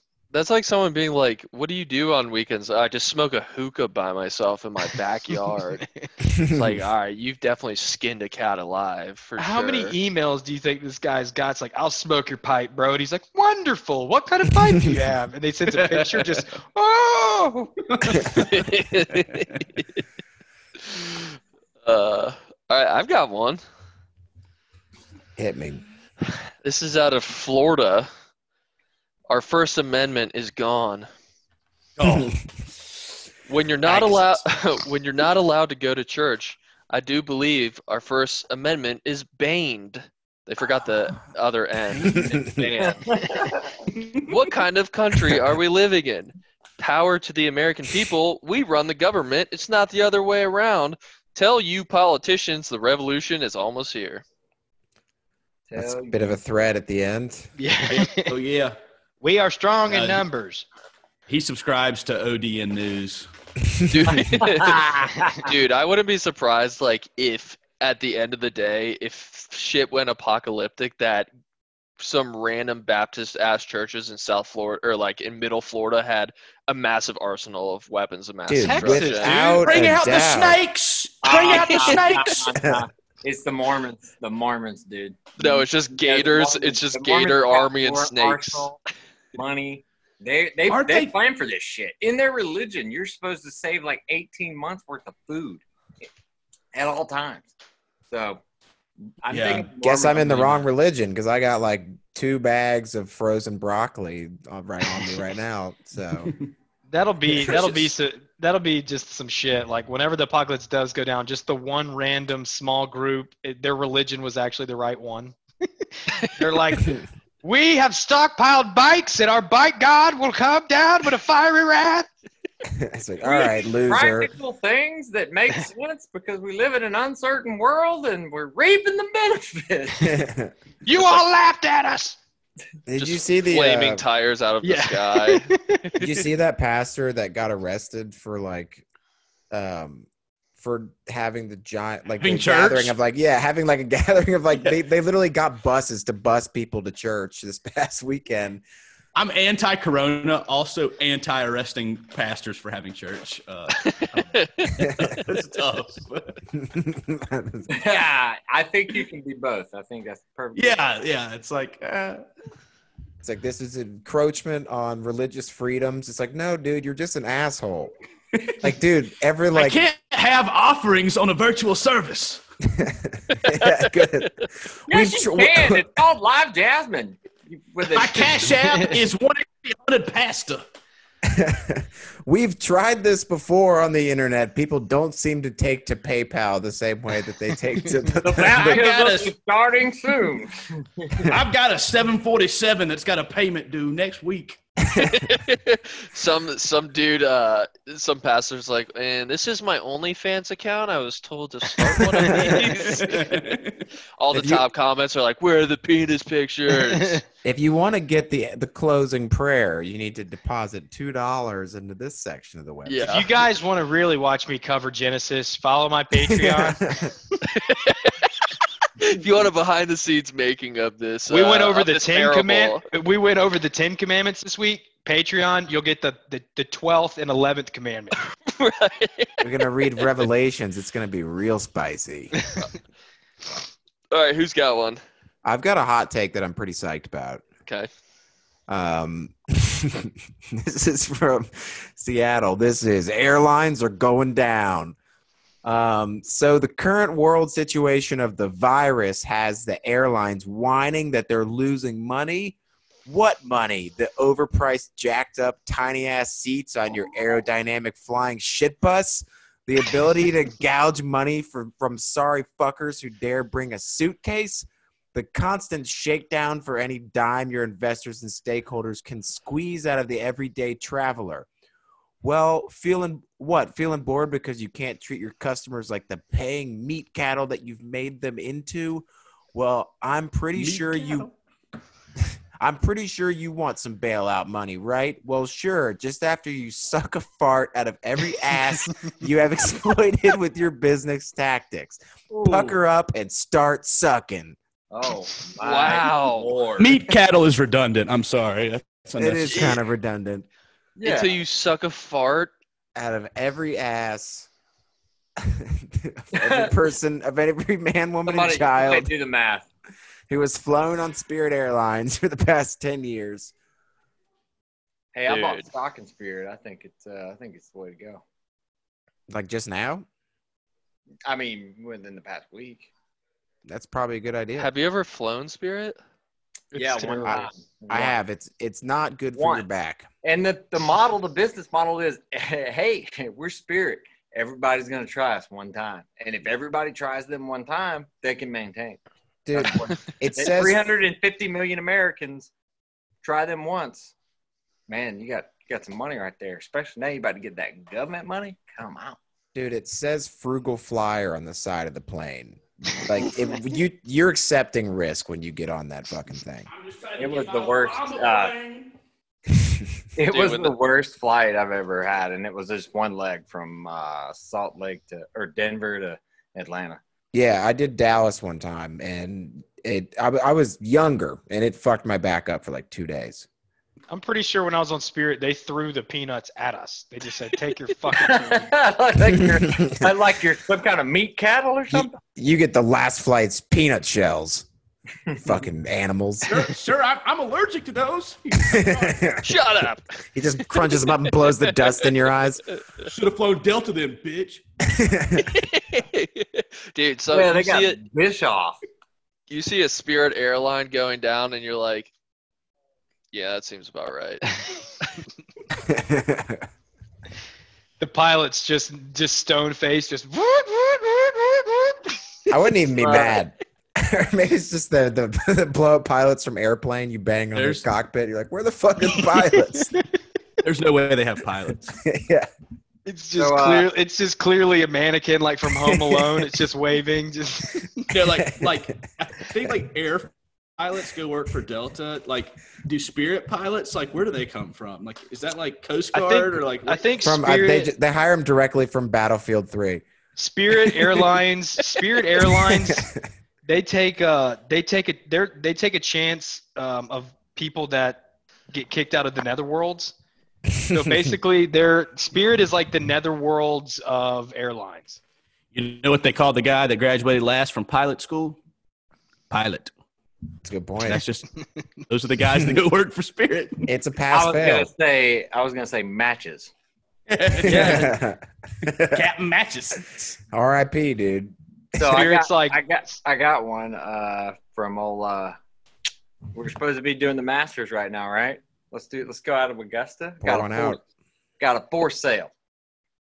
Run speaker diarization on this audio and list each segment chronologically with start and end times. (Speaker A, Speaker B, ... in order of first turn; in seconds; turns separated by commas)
Speaker A: 0.3-5.8, Speaker B: 6.3-6.7, Speaker A: 6.3-9.9, Speaker C: 9.4-17.8, Speaker D: 17.9-18.6, Speaker A: 18.3-19.6, Speaker A: 20.8-23.6, Speaker B: 25.4-25.8, Speaker A: 26.6-28.1, Speaker A: 29.3-31.1, Speaker D: 32.0-32.4, Speaker B: 32.0-32.4, Speaker A: 33.5-43.0, Speaker D: 33.9-34.4, Speaker B: 42.0-42.6, Speaker E: 42.1-43.8, Speaker D: 43.9-44.4, Speaker A: 44.2-54.2, Speaker E: 55.7-56.3, Speaker B: 55.7-57.5, Speaker C: 57.6-58.3, Speaker D: 57.9-58.8, Speaker C: 59.2-60.6, Speaker D: 59.9-60.2, Speaker D: 61.3-63.3, Speaker A: 63.9-71.3, Speaker E: 64.1-65.5, Speaker A: 72.0-79.4, Speaker B: 78.5-80.6, Speaker C: 78.6-79.7, Speaker D: 79.2-82.4, Speaker E: 81.2-88.8, Speaker A: 81.3-82.1, Speaker B: 82.5-82.8, Speaker A: 85.4-88.7, Speaker E: 89.3-95.6, Speaker D: 90.7-91.1, Speaker E: 96.7-97.5, Speaker E: 98.1-98.4, Speaker E: 99.2-100.5, Speaker D: 99.3-99.7, Speaker B: 99.8-106.3, Speaker D: 100.2-100.6, Speaker D: 106.2-106.5, Speaker C: 106.9-115.3, Speaker C: 116.0-122.1, Speaker B: 122.6-124.3, Speaker E: 123.2-130.1, Speaker B: 130.0-130.5, Speaker C: 130.8-132.2, Speaker B: 132.8-134.0, Speaker A: 133.0-136.2, Speaker C: 134.6-135.8, Speaker B: 136.0-138.8, Speaker B: 139.5-148.6, Speaker D: 142.2-142.9, Speaker D: 149.1-156.4, Speaker A: 153.8-155.2, Speaker B: 156.6-157.7, Speaker E: 157.7-160.8, Speaker D: 160.5-162.2, Speaker B: 163.2-167.9, Speaker D: 168.3-168.7, Speaker B: 168.6-169.8, Speaker D: 169.5-172.4, Speaker B: 172.7-175.9, Speaker E: 174.9-178.6, Speaker D: 177.9-180.6, Speaker B: 181.2-188.8, Speaker E: 188.2-191.3, Speaker D: 188.5-189.3, Speaker D: 191.2-194.6, Speaker A: 195.0-203.6, Speaker C: 202.3-202.5, Speaker D: 202.4-203.8, Speaker A: 204.2-207.2, Speaker B: 204.3-204.6, Speaker C: 206.9-207.2, Speaker B: 207.4-213.1, Speaker A: 212.8-213.3, Speaker C: 213.0-217.1, Speaker B: 216.3-217.1, Speaker A: 217.5-218.3, Speaker A: 219.0-222.8, Speaker C: 221.3-228.2, Speaker A: 228.5-229.4, Speaker B: 229.4-232.4, Speaker A: 234.1-235.0, Speaker B: 235.4-237.4, Speaker B: 238.7-244.9, Speaker B: 245.6-271.5, Speaker B: 272.2-281.3, Speaker D: 280.6-281.3, Speaker B: 282.2-294.6, Speaker E: 292.3-292.7, Speaker E: 294.9-296.9, Speaker A: 295.6-296.6, Speaker D: 296.5-299.8, Speaker B: 299.1-300.4, Speaker A: 299.5-299.8, Speaker E: 301.0-301.4, Speaker A: 301.0-302.5, Speaker B: 302.9-304.5, Speaker B: 305.4-309.1, Speaker E: 306.4-306.7, Speaker E: 308.3-309.7, Speaker B: 310.3-313.5, Speaker E: 315.1-318.2, Speaker A: 315.3-315.6, Speaker B: 319.3-320.1, Speaker E: 321.2-322.9, Speaker B: 323.6-324.7, Speaker A: 324.6-326.0, Speaker E: 326.7-328.1, Speaker B: 327.2-330.1, Speaker E: 329.3-329.6, Speaker E: 330.2-342.5, Speaker B: 339.4-340.9, Speaker E: 343.2-344.1, Speaker E: 344.9-349.2, Speaker B: 349.5-356.6, Speaker D: 356.7-358.9, Speaker E: 357.2-358.6, Speaker B: 359.5-360.0, Speaker E: 360.2-367.0, Speaker A: 360.3-360.7, Speaker B: 367.3-373.5, Speaker C: 374.1-378.7, Speaker E: 378.1-382.2, Speaker B: 379.4-379.9, Speaker B: 381.9-384.7, Speaker B: 385.4-386.5, Speaker D: 386.4-389.4, Speaker B: 388.6-389.5, Speaker A: 389.4-390.0, Speaker B: 390.3-392.6, Speaker A: 390.8-392.1, Speaker D: 393.0-394.6, Speaker B: 394.9-395.5, Speaker A: 395.4-398.0, Speaker E: 397.3-398.8, Speaker A: 399.5-402.1, Speaker A: 403.3-405.2, Speaker B: 405.8-406.7, Speaker C: 408.0-412.1, Speaker B: 412.5-419.9, Speaker E: 413.0-413.4, Speaker D: 417.5-417.9, Speaker D: 420.6-422.0, Speaker B: 422.0-422.5, Speaker C: 423.1-428.1, Speaker E: 423.3-423.9, Speaker B: 425.9-426.4, Speaker D: 428.1-437.0, Speaker B: 428.4-428.6, Speaker C: 436.1-437.9, Speaker B: 437.2-440.0, Speaker C: 440.4-443.1, Speaker B: 442.7-443.2, Speaker C: 443.6-450.1, Speaker C: 450.9-455.2, Speaker D: 455.7-458.6, Speaker D: 459.5-459.9, Speaker B: 460.6-461.2, Speaker D: 461.0-461.5, Speaker D: 462.1-463.9, Speaker B: 463.9-464.9, Speaker E: 464.3-466.7, Speaker D: 467.3-468.2, Speaker B: 467.6-469.2, Speaker D: 469.1-470.2, Speaker B: 470.4-472.2, Speaker E: 471.9-475.6, Speaker C: 472.1-472.8, Speaker E: 476.5-481.0, Speaker B: 480.4-481.0, Speaker E: 481.6-482.5